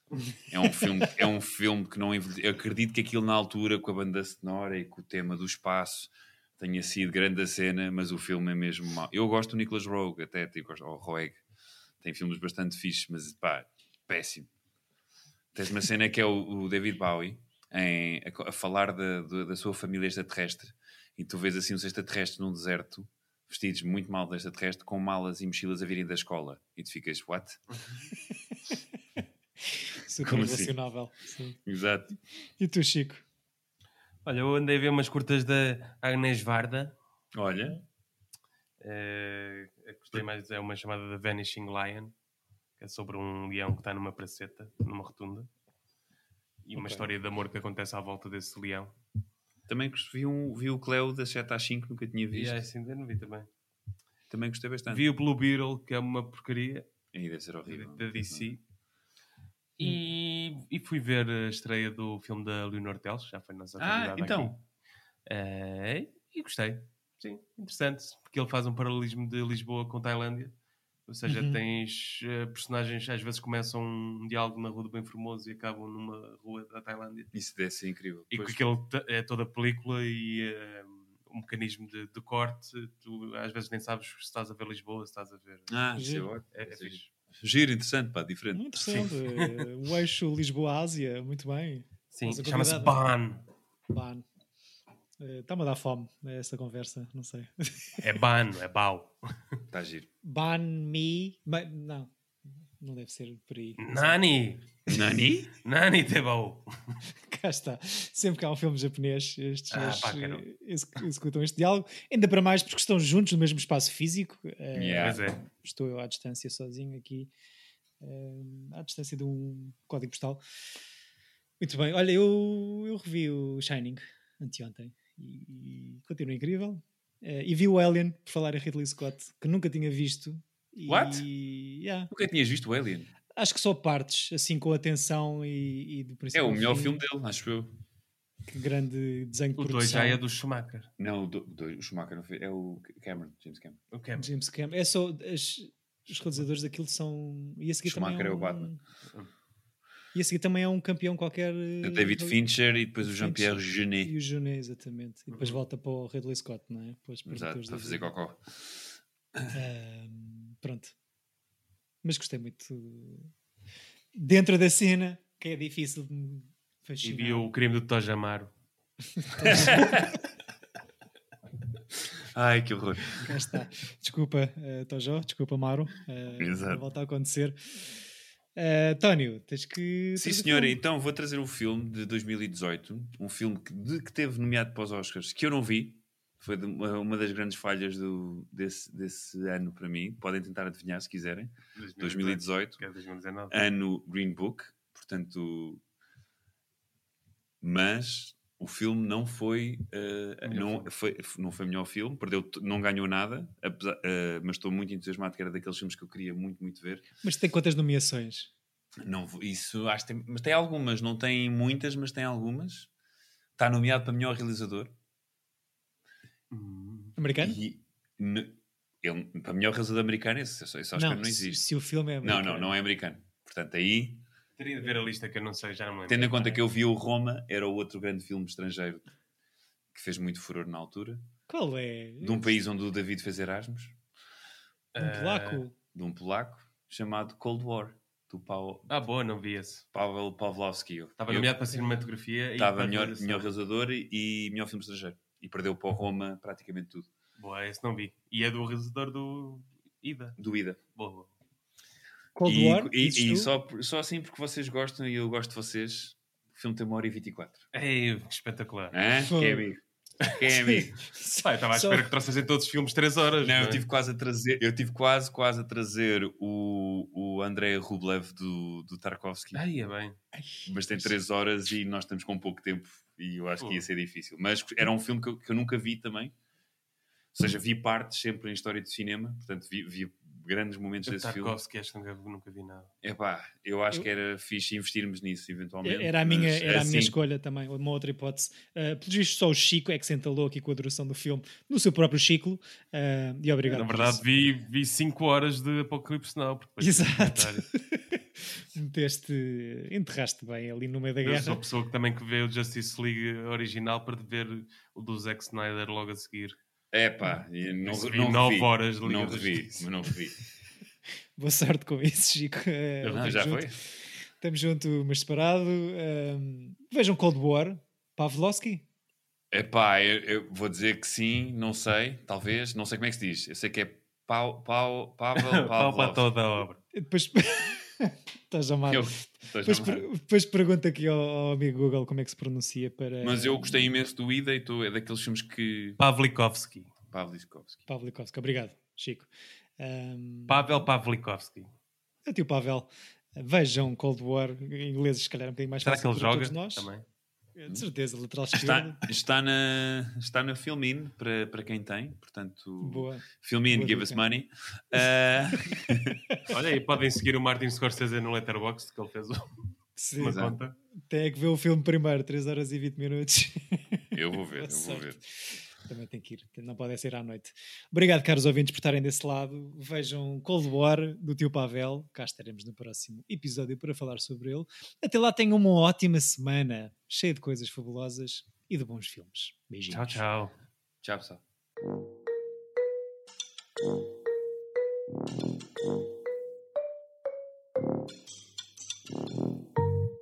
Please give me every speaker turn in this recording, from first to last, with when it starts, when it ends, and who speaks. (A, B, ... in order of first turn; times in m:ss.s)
0:00.3-0:01.0 A
0:00.5-0:11.4 B
0:12.0-0:14.5 B
0:15.5-0:27.6 B
0:28.5-0:28.8 A
0:29.7-0:31.6 A
0:30.2-0:30.7 B
0:31.6-0:32.2 B
0:32.6-0:33.2 A
0:34.2-0:36.9 C
0:37.3-0:37.8 B
0:38.8-0:42.1 C
0:42.8-0:45.5 C
0:46.6-0:49.0 C
0:46.8-0:47.0 A
0:49.7-0:52.6 B
0:52.3-0:53.5 C
0:54.3-0:55.1 B
0:54.9-0:56.9 C
0:57.1-0:58.5 B
0:57.7-0:58.6 C
0:59.8-1:04.6 C
1:03.8-1:04.6 B
1:05.2-1:10.5 C
1:11.1-1:17.3 C
1:11.3-1:11.6 A
1:17.3-1:18.6 B
1:18.3-1:25.8 C
1:25.7-1:29.1 B
1:26.0-1:26.3 A
1:26.5-1:27.1 C
1:28.5-1:33.0 A
1:28.9-1:29.7 C
1:32.1-1:33.4 C
1:33.9-1:34.2 A
1:35.2-1:37.9 A
1:38.0-1:39.6 C
1:39.7-1:40.1 B
1:40.2-1:42.1 A
1:42.8-1:44.2 A
1:43.8-1:44.7 C
1:44.9-1:45.5 B
1:45.6-1:47.0 C
1:47.3-1:57.3 A
1:49.7-1:50.4 C
1:54.7-1:55.2 B
1:55.0-1:55.4 C
1:58.0-2:00.4 A
2:01.6-2:12.1 A
2:10.9-2:11.3 B
2:12.1-2:13.1 B
2:13.4-2:17.0 A
2:16.3-2:17.8 B
2:18.5-2:20.2 A
2:19.6-2:20.9 C
2:21.0-2:23.8 B
2:23.9-2:24.2 C
2:24.2-2:28.8 A
2:27.8-2:28.7 B
2:30.1-2:32.4 A
2:31.8-2:34.1 B
2:33.0-2:38.1 A
2:35.3-2:35.6 C
2:37.2-2:38.8 B
2:39.5-2:40.9 A
2:42.0-2:43.3 A
2:44.1-2:47.5 A
2:47.0-2:48.5 C
2:49.2-2:50.0 A
2:49.4-2:50.2 B
2:52.1-2:53.3 B
2:53.2-2:57.9 A
2:56.4-2:56.8 B
2:58.6-3:00.8 A
3:00.2-3:12.8 B
3:11.8-3:13.6 C
3:13.5-3:15.8 B
3:17.6-3:27.0 B
3:20.4-3:20.9 C
3:27.2-3:28.5 A
3:29.0-3:32.9 B
3:33.6-3:34.9 B
3:36.5-3:37.2 C
3:37.2-3:37.6 A
3:37.4-3:41.6 B
3:40.9-3:42.7 A
3:42.2-3:44.2 B
3:44.6-3:46.6 C
3:46.1-3:49.0 B
3:49.9-3:51.2 B
3:51.5-3:52.6 A
3:52.2-3:54.0 B
3:54.9-3:55.6 C
3:55.0-3:55.7 A
3:55.9-3:58.9 B
3:58.9-3:59.8 C
3:59.9-4:01.5 B
4:01.2-4:03.5 C
4:01.7-4:02.1 A
4:02.6-4:07.1 B
4:07.4-4:10.4 C
4:10.4-4:10.8 B
4:10.9-4:11.3 C
4:12.4-4:13.5 A
4:12.4-4:17.6 B
4:17.7-4:19.0 C
4:18.9-4:21.0 B
4:19.2-4:19.7 A
4:20.5-4:22.1 A
4:21.4-4:23.8 C
4:23.4-4:29.6 B
4:29.5-4:30.2 C
4:30.3-4:30.7 A
4:30.6-4:36.3 B
4:37.3-4:41.6 B
4:41.0-4:42.9 C
4:43.0-4:47.2 B
4:45.8-4:54.2 A
4:53.6-4:57.6 C
4:56.8-5:01.6 A
5:01.2-5:06.6 C
5:06.9-5:10.4 B
5:07.8-5:09.9 C
5:11.4-5:13.7 A
5:13.0-5:13.8 B
5:14.4-5:18.8 A
5:19.5-5:26.3 B
5:25.3-5:26.8 C
5:26.9-5:33.9 A
5:28.9-5:30.1 B
5:33.2-5:36.0 B
5:36.0-5:36.9 C
5:37.1-5:37.8 B
5:37.9-5:40.8 A
5:40.5-5:41.7 C
5:42.2-5:46.9 A
5:45.8-5:47.0 C
5:47.6-5:49.0 A
5:48.5-5:56.2 B
5:52.8-5:54.2 A
5:56.5-5:59.6 C
6:00.0-6:00.5 A
6:00.2-6:00.7 C
6:00.2-6:00.6 B
6:01.1-6:20.2 A
6:04.1-6:05.2 B
6:19.9-6:20.5 C
6:21.0-6:21.4 B